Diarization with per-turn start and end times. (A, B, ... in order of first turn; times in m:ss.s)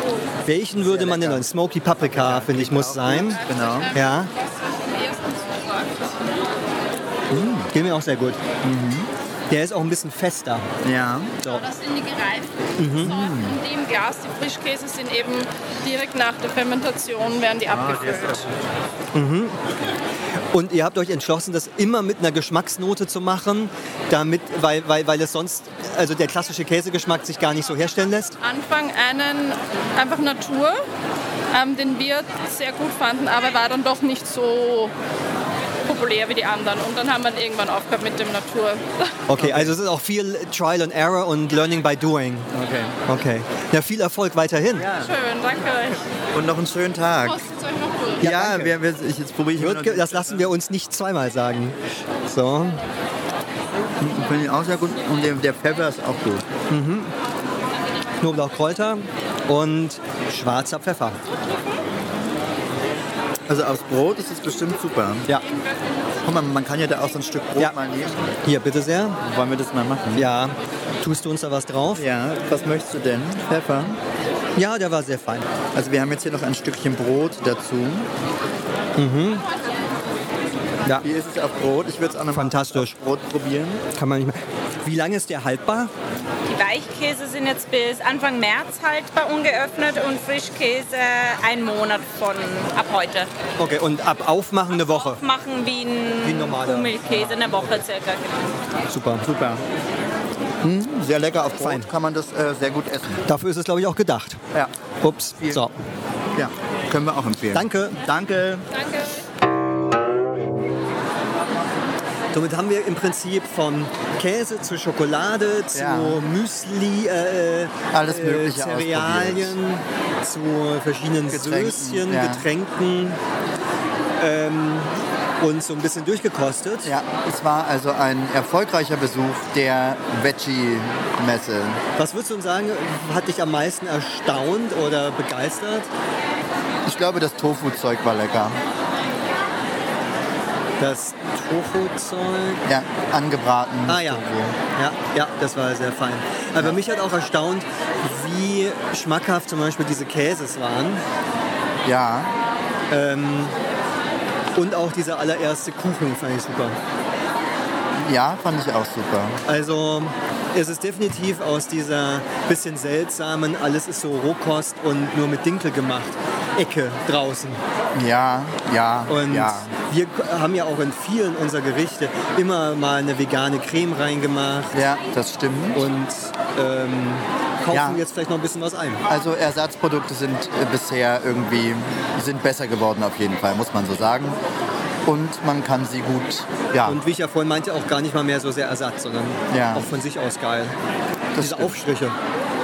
0:00.4-0:03.4 A
0:00.8-0:04.0 B
0:03.1-0:06.4 C
0:03.9-0:04.3 A
0:07.3-0:07.7 B
0:07.7-0:08.4 A
0:08.6-0:09.1 B
0:09.5-0:10.7 A
0:10.8-0:11.4 B
0:11.5-0:18.5 C
0:12.8-0:13.1 A
0:13.0-0:13.6 B
0:17.7-0:18.5 B
0:19.1-0:19.6 A
0:20.5-0:28.4 A
0:28.4-0:30.8 C
0:31.5-0:34.9 C
0:35.8-0:39.2 C
0:39.3-0:42.5 A
0:39.4-0:39.8 B
0:42.5-0:43.0 B
0:43.1-0:44.9 A
0:44.8-0:45.2 B
0:44.9-0:46.0 C
0:46.3-0:47.4 B
0:47.2-0:48.2 C
0:48.2-0:48.8 A
0:48.2-0:50.6 B
0:49.6-0:52.8 A
0:54.0-0:56.5 B
0:56.7-0:57.1 A
0:58.2-1:01.2 A
1:03.5-1:05.4 B
1:06.2-1:08.2 B
1:08.4-1:09.2 A
1:09.2-1:10.3 B
1:10.2-1:12.0 A
1:11.9-1:14.0 B
1:14.6-1:15.5 A
1:15.7-1:18.1 B
1:19.0-1:19.4 A
1:21.0-1:23.9 B
1:22.3-1:22.9 A
1:24.0-1:25.9 A
1:26.5-1:33.3 D
1:33.6-1:35.2 A
1:35.1-1:38.3 D
1:36.2-1:37.8 A
1:38.9-1:39.2 A
1:39.2-1:39.6 B
1:40.6-1:43.2 B
1:41.6-1:41.9 A
1:43.3-1:44.4 A
1:45.0-1:45.7 A
1:45.4-1:45.7 B
1:46.4-1:48.7 B
1:47.5-1:48.0 A
1:52.3-2:03.2 A
1:55.7-1:56.3 B
1:57.9-1:59.6 B
2:01.3-2:02.5 B
2:04.2-2:06.9 A
2:06.8-2:11.8 B
2:12.0-2:15.9 A
2:16.8-2:18.6 B
2:20.8-2:22.6 A
2:22.7-2:24.6 B
2:23.9-2:31.0 A
2:31.8-2:32.4 B
2:32.9-2:33.6 A
2:34.6-2:36.8 A
2:38.0-2:39.4 B
2:39.5-2:47.6 A
2:48.0-2:49.7 B
2:49.1-2:54.8 A
2:54.7-2:55.9 B
2:55.7-2:59.0 A
2:57.7-2:58.0 B
2:59.1-3:04.4 B
3:05.1-3:07.0 B
3:06.8-3:10.8 A
3:09.5-3:09.9 B
3:11.4-3:11.8 B
3:11.4-3:12.2 A